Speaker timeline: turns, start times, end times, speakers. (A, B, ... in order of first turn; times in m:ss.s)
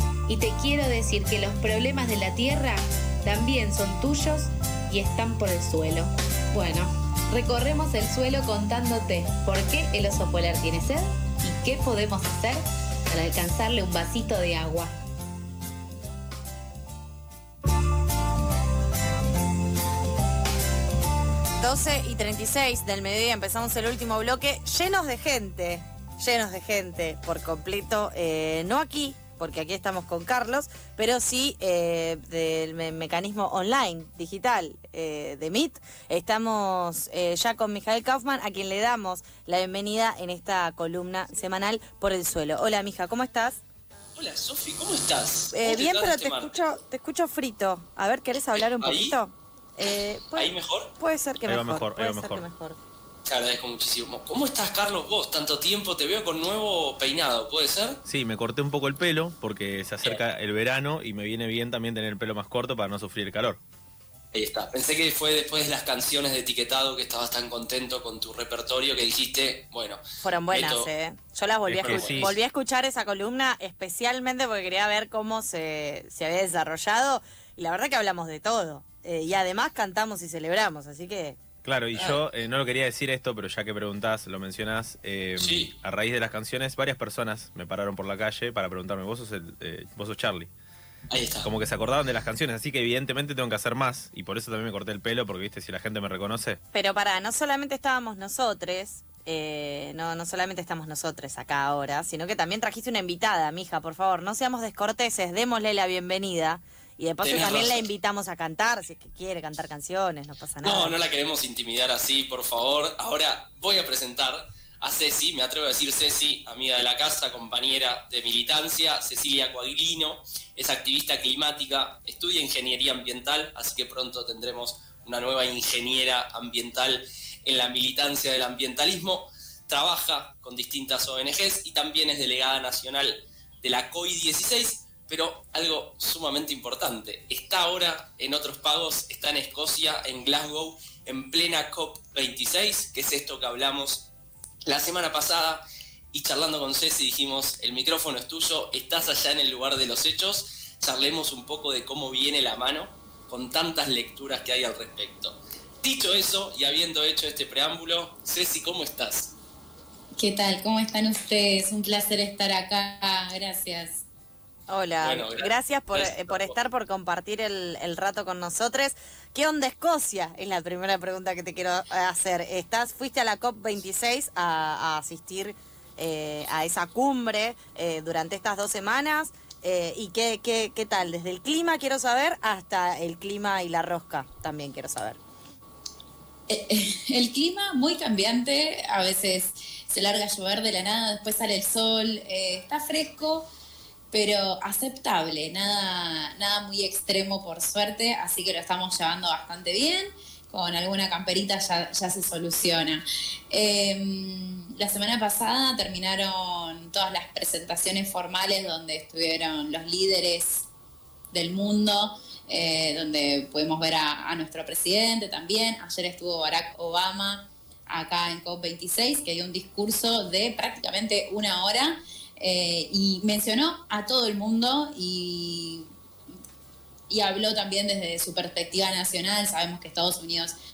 0:00.3-0:14.9 A
0:21.6-0:43.6 B
0:44.2-0:46.5 C
0:45.5-0:52.8 B
0:48.8-0:49.2 C
0:50.4-0:50.9 C
0:51.5-0:52.5 D
0:53.2-0:58.0 C
0:58.0-1:03.6 D
1:04.3-1:10.9 C
1:10.2-1:21.4 B
1:11.7-1:12.4 D
1:11.8-1:12.4 C
1:21.6-1:30.5 D
1:21.9-1:22.2 C
1:25.4-1:25.7 C
1:31.1-1:31.5 C
1:31.4-1:36.6 D
1:36.7-1:51.0 B
1:47.2-1:47.9 C
1:50.6-2:24.0 C
2:24.7-2:25.6 C
2:26.1-2:39.3 C
2:40.2-2:44.0 E
2:44.7-3:05.2 B
2:45.0-2:46.6 C
3:06.5-3:13.5 E
3:14.1-3:30.7 E
3:31.3-3:45.9 E
3:47.1-3:50.5 E